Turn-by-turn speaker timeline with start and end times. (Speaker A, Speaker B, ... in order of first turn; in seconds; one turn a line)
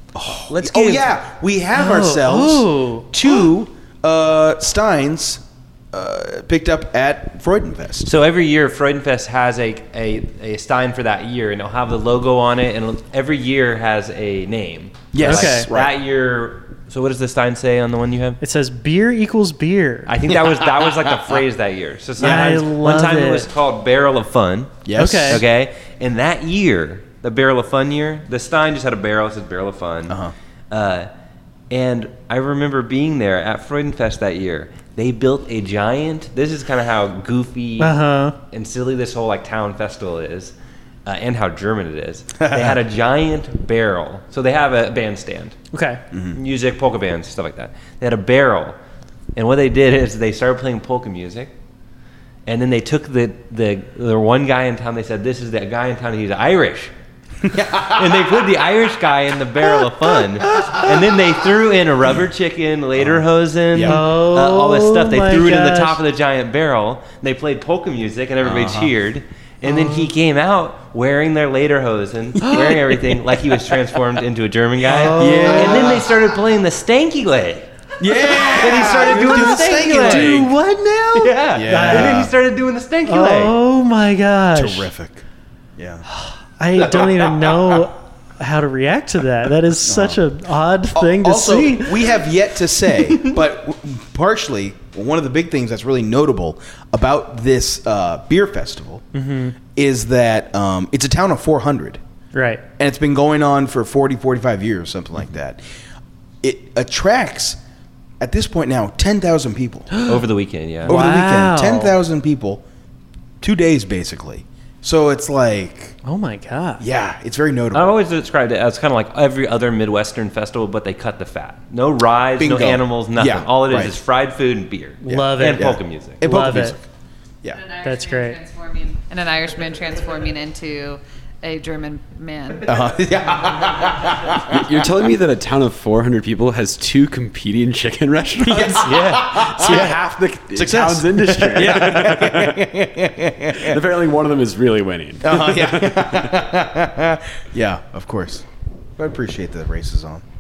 Speaker A: 0.1-8.1
Speaker B: 0.5-1.1
Speaker C: 1.7-3.1
Speaker B: 8.1-18.4
Speaker A: 15.1-15.9
Speaker C: 15.2-15.7
Speaker C: 18.4-20.1
Speaker B: 20.1-30.2
Speaker A: 20.3-21.4
Speaker A: 22.2-22.6
Speaker C: 22.2-23.4
Speaker A: 24.9-25.4
Speaker C: 25.0-25.4
Speaker A: 30.1-30.3
Speaker B: 30.7-31.1
Speaker B: 31.7-38.0
Speaker C: 37.8-38.4
Speaker B: 38.5-40.5
Speaker B: 41.1-45.6
Speaker A: 42.4-42.8
Speaker C: 45.7-46.0
Speaker A: 46.1-46.4
Speaker B: 46.3-48.8
Speaker B: 49.4-51.5
Speaker B: 52.5-56.9
Speaker A: 57.4-58.3
Speaker B: 57.8-80.4
Speaker A: 63.0-64.0
Speaker C: 63.9-66.0
Speaker A: 68.4-68.9
Speaker C: 69.6-70.1
Speaker A: 72.4-73.1
Speaker C: 74.9-76.0
Speaker A: 75.2-76.1
Speaker A: 78.0-80.5
Speaker C: 78.8-82.3
Speaker B: 81.2-83.6
Speaker A: 81.5-82.3
Speaker C: 83.1-84.9
Speaker A: 84.5-85.2
Speaker A: 85.8-86.0
Speaker C: 86.1-92.1
Speaker A: 89.8-90.2
Speaker A: 91.0-99.0
Speaker C: 99.1-99.5
Speaker A: 99.8-102.0
Speaker C: 102.3-102.6
Speaker A: 102.8-105.6
Speaker A: 106.4-107.6
Speaker A: 108.2-110.0
Speaker B: 110.0-111.0
Speaker A: 110.9-112.6
Speaker C: 110.9-112.0
Speaker A: 113.4-116.0
Speaker C: 116.0-116.8
Speaker A: 116.8-118.0
Speaker B: 117.7-126.2
Speaker A: 122.4-123.9
Speaker C: 125.0-126.8
Speaker A: 125.1-126.9
Speaker D: 127.5-132.7
Speaker C: 127.8-128.4
Speaker A: 132.7-134.7
Speaker E: 134.5-142.6
Speaker A: 138.4-143.8
Speaker B: 138.8-139.2
Speaker E: 143.6-146.3
Speaker A: 145.2-148.4
Speaker A: 149.0-150.2